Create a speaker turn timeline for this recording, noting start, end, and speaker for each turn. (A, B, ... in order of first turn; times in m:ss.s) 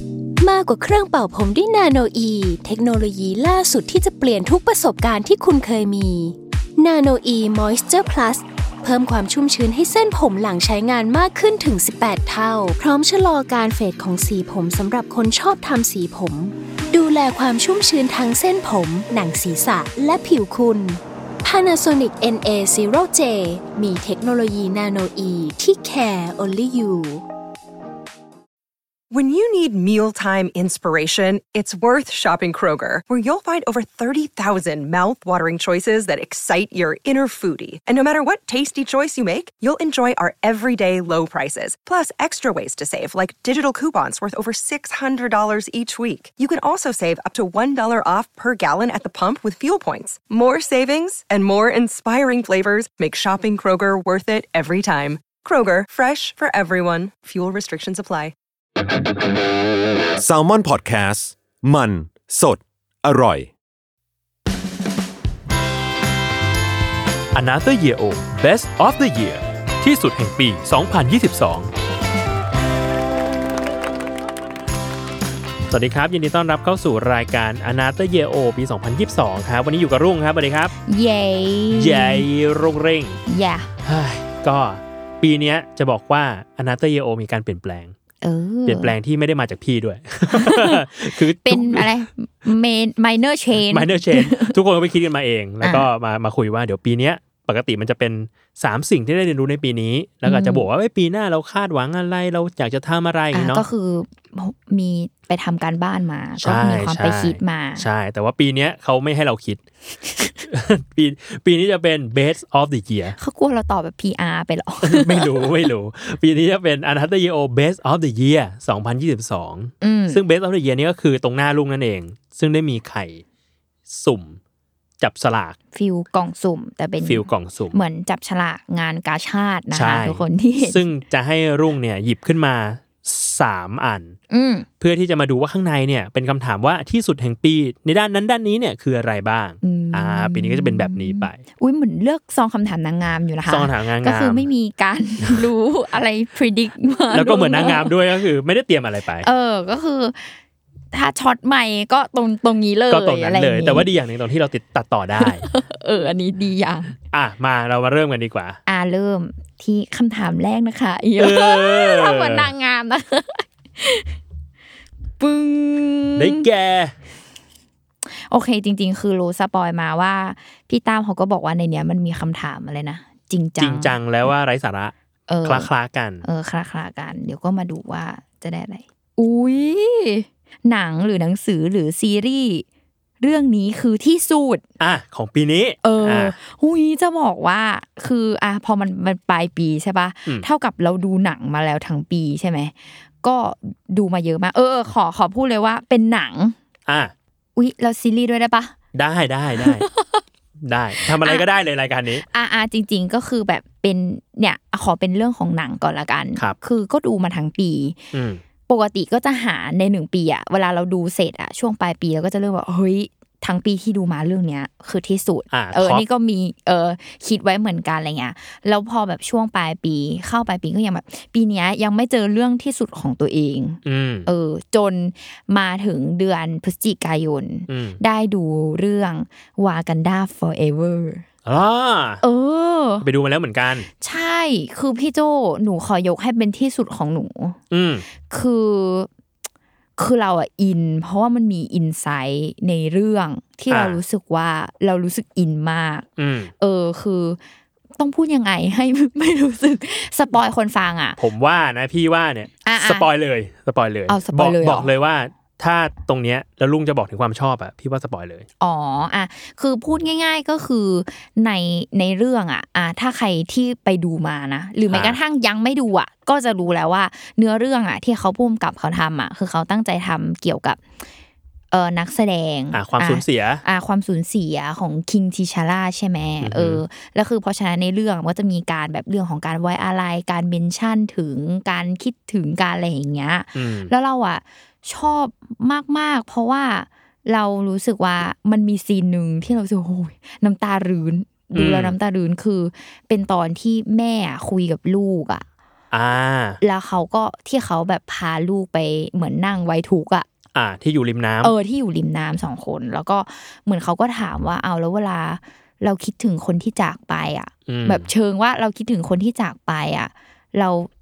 0:00.4-0:27.2 A
0:29.1-0:58.3 B
1:00.2-1:03.5 C
1:07.3-1:11.7 D
1:15.7-1:20.7 D
1:20.9-1:22.3 E
1:21.7-1:23.2 D
1:23.3-1:23.7 E
1:23.8-1:27.9 D
1:28.2-1:29.0 E
1:28.6-1:31.9 D
1:30.3-1:34.6 E
1:33.7-1:43.6 D
1:35.6-1:35.9 E
1:40.2-1:40.6 E
1:43.3-1:47.8 E
1:46.4-1:49.6 D
1:50.4-1:53.2 D
1:53.1-1:55.5 E
1:54.8-2:03.2 D
1:59.8-2:00.2 E
2:03.9-2:04.4 D
2:05.0-2:05.6 D
2:05.7-2:10.8 E
2:07.0-2:07.8 D
2:09.7-2:14.1 D
2:14.3-2:14.7 E
2:14.8-2:21.4 D
2:19.6-2:27.9 E
2:23.5-2:24.5 D
2:27.1-2:29.3 D
2:29.2-2:30.4 E
2:30.9-2:33.9 E
2:32.9-2:35.4 D
2:35.2-2:37.0 E
2:37.1-2:38.6 D
2:38.6-2:44.1 E
2:41.2-2:42.5 D
2:45.2-2:46.4 E
2:46.2-2:46.9 D
2:48.1-2:54.3 E
2:53.6-2:54.9 D
2:55.3-2:55.7 E
2:55.4-2:56.2 D
2:56.2-3:02.6 E
3:03.2-3:04.6 E
3:04.8-3:06.4 D
3:05.8-3:16.6 E
3:16.9-3:17.1 D
3:17.6-3:18.7 E
3:18.9-3:19.9 D
3:19.6-3:20.2 E
3:20.6-3:22.2 D
3:21.0-3:21.4 E
3:22.3-3:28.0 E
3:28.1-3:28.4 D
3:28.7-3:51.2 E
3:35.5-3:36.0 D
3:43.8-3:44.3 D
3:47.7-3:48.0 D
3:51.4-3:52.2 D
3:52.2-3:53.0 E
3:53.0-3:53.9 D
3:54.0-3:57.6 E
3:57.7-3:58.0 D
3:58.3-3:59.1 E
4:00.0-4:06.1 E
4:03.7-4:04.0 D
4:06.2-4:06.5 D
4:06.6-4:07.4 E
4:08.0-4:11.2 E
4:11.2-4:18.4 D
4:12.6-4:13.1 E
4:14.1-4:14.9 E
4:18.6-4:30.8 E
4:24.9-4:25.2 D
4:31.7-4:55.4 E
4:32.7-4:33.6 D
4:36.4-4:36.8 D
4:43.5-4:43.9 D
4:51.5-4:51.9 D
4:55.9-4:56.6 D
4:56.6-5:00.2 E
5:00.5-5:01.5 D
5:01.4-5:10.9 E
5:07.7-5:08.1 D